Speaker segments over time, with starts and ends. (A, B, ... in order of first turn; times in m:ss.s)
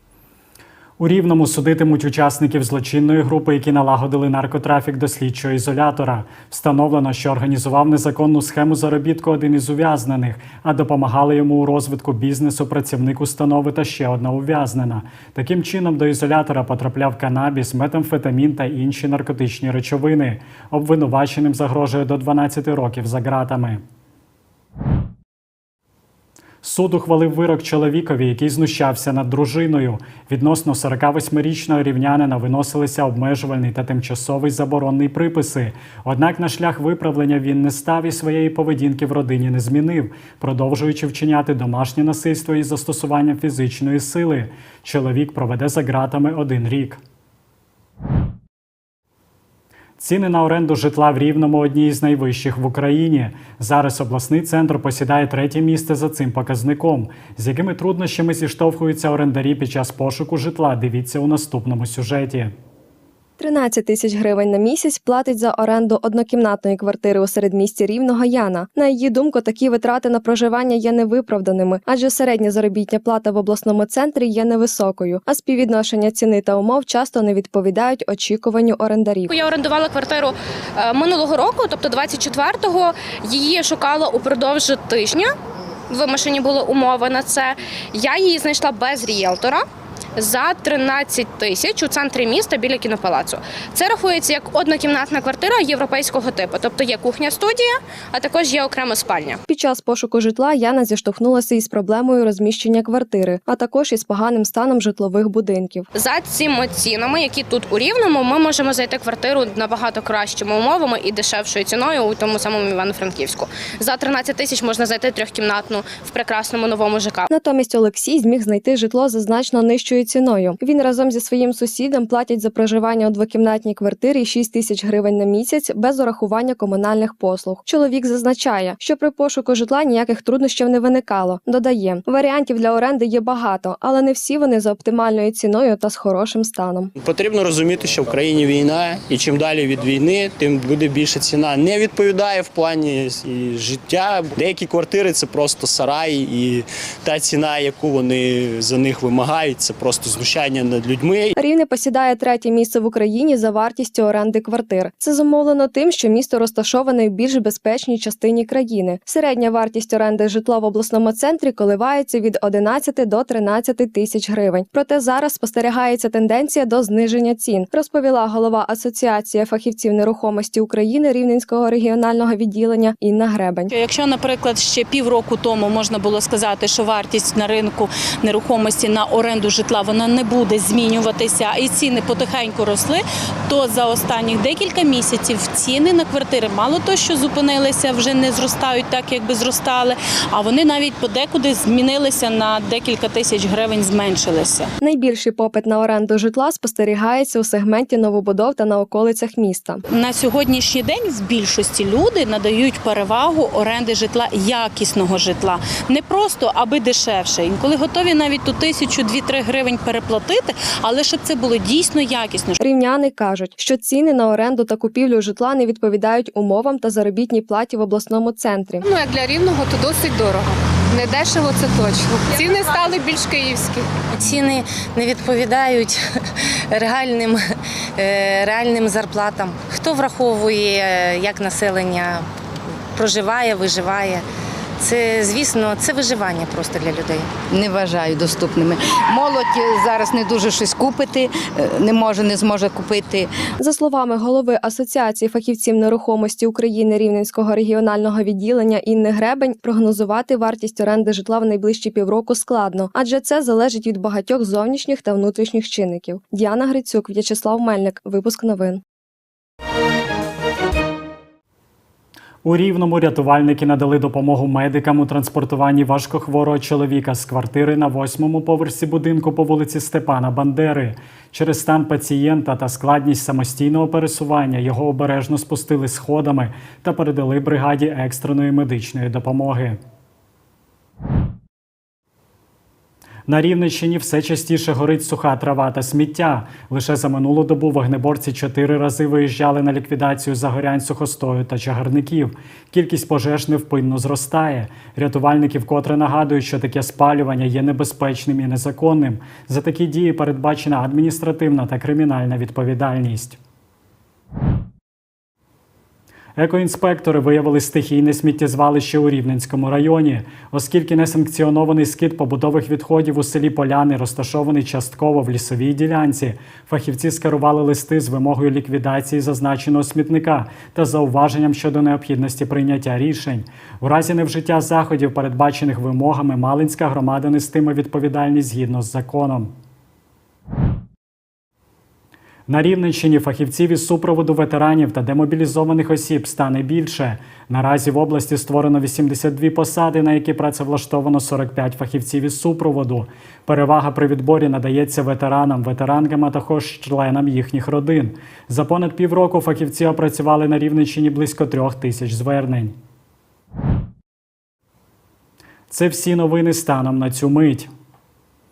0:01.0-0:23.8 A
0:26.6-0:47.0 A
0:50.0-1:02.5 A
1:03.4-1:19.3 B
1:19.3-1:25.3 C
1:25.9-1:29.6 C
1:30.2-1:39.4 C
1:39.5-1:45.9 B
1:46.0-1:57.3 C
1:57.3-2:16.9 B
2:17.0-2:31.3 D
2:31.4-2:53.7 B
2:53.7-3:14.7 E
3:14.8-3:19.8 B
3:19.9-3:32.6 E
3:32.6-3:38.8 B
3:38.8-3:43.9 F
3:44.2-3:46.0 G
3:46.7-3:47.4 G
3:48.0-3:52.3 G
3:53.0-3:54.2 G
3:54.8-3:57.5 G
3:57.5-4:03.3 H
4:03.6-4:18.8 B
4:22.4-4:39.8 A
4:43.3-5:03.4 A
5:06.4-5:29.5 A
5:32.5-5:52.8 A
5:55.7-5:57.7 A